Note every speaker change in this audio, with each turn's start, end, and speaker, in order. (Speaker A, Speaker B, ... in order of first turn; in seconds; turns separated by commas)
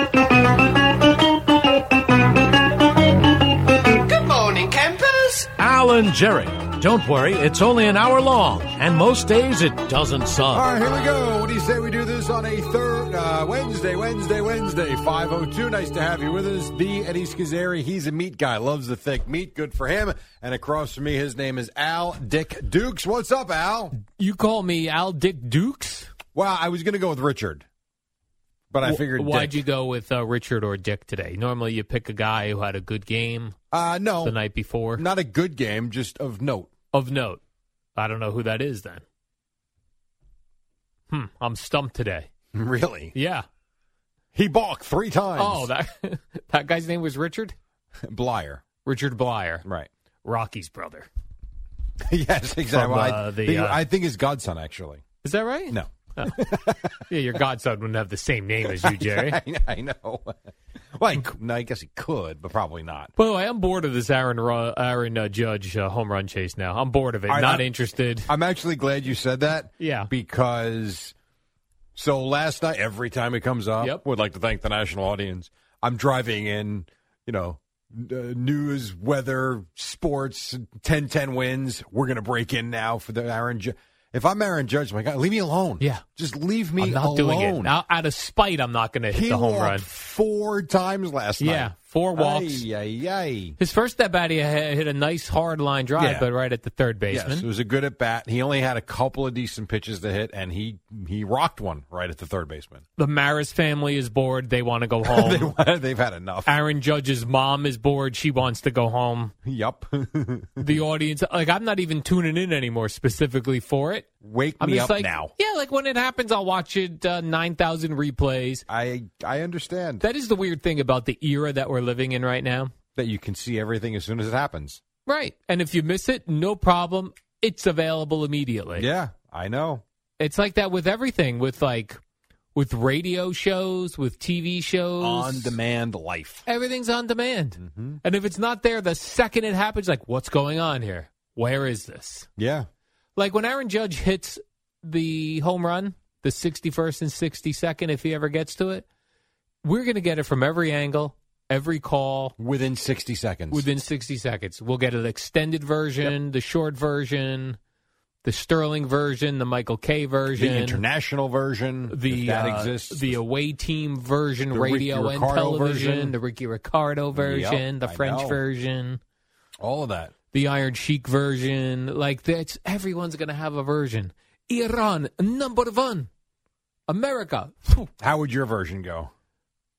Speaker A: 4.0-10.7, Speaker B: 10.5-24.0, Speaker C: 24.0-26.1, Speaker B: 26.3-27.7, Speaker B: 28.7-29.6, Speaker C: 28.8-33.6, Speaker B: 33.7-34.4, Speaker C: 34.2-35.0, Speaker B: 35.0-36.7, Speaker C: 36.9-37.4, Speaker C: 38.0-39.0, Speaker C: 41.1-42.3, Speaker B: 42.5-43.1, Speaker C: 43.1-43.5, Speaker B: 44.4-45.7, Speaker C: 45.4-47.5, Speaker B: 48.0-48.6, Speaker C: 48.8-49.6, Speaker C: 50.2-51.1, Speaker B: 52.1-55.0, Speaker C: 52.7-53.8, Speaker C: 55.2-56.4, Speaker B: 55.7-57.1, Speaker C: 57.1-59.4, Speaker B: 58.6-63.1, Speaker C: 63.2-68.3, Speaker B: 67.3-67.7, Speaker B: 68.3-71.2, Speaker C: 69.8-70.1, Speaker B: 72.0-87.8, Speaker C: 86.8-89.9, Speaker B: 89.1-93.6, Speaker C: 91.4-92.7, Speaker C: 93.6-97.5, Speaker B: 96.0-96.3, Speaker B: 97.1-102.8, Speaker C: 103.0-105.5, Speaker B: 105.0-106.5, Speaker C: 106.5-109.3, Speaker B: 109.5-110.8, Speaker C: 110.6-114.1, Speaker B: 114.2-115.3, Speaker C: 114.6-118.7, Speaker B: 118.7-120.0, Speaker C: 120.0-122.7, Speaker B: 123.0-124.8, Speaker C: 125.1-128.9, Speaker B: 128.8-129.8, Speaker C: 130.2-132.0, Speaker C: 132.6-135.6, Speaker B: 135.0-136.4, Speaker C: 136.5-142.3, Speaker B: 137.6-138.0, Speaker B: 142.4-142.7, Speaker C: 143.2-148.8, Speaker C: 149.6-152.3, Speaker B: 152.4-153.7, Speaker C: 153.5-157.6, Speaker C: 158.2-160.8, Speaker B: 160.4-163.2, Speaker C: 161.9-169.0, Speaker B: 164.5-166.2, Speaker B: 167.1-168.4, Speaker B: 169.6-170.1, Speaker C: 170.3-176.1, Speaker C: 176.9-177.9, Speaker B: 178.0-179.1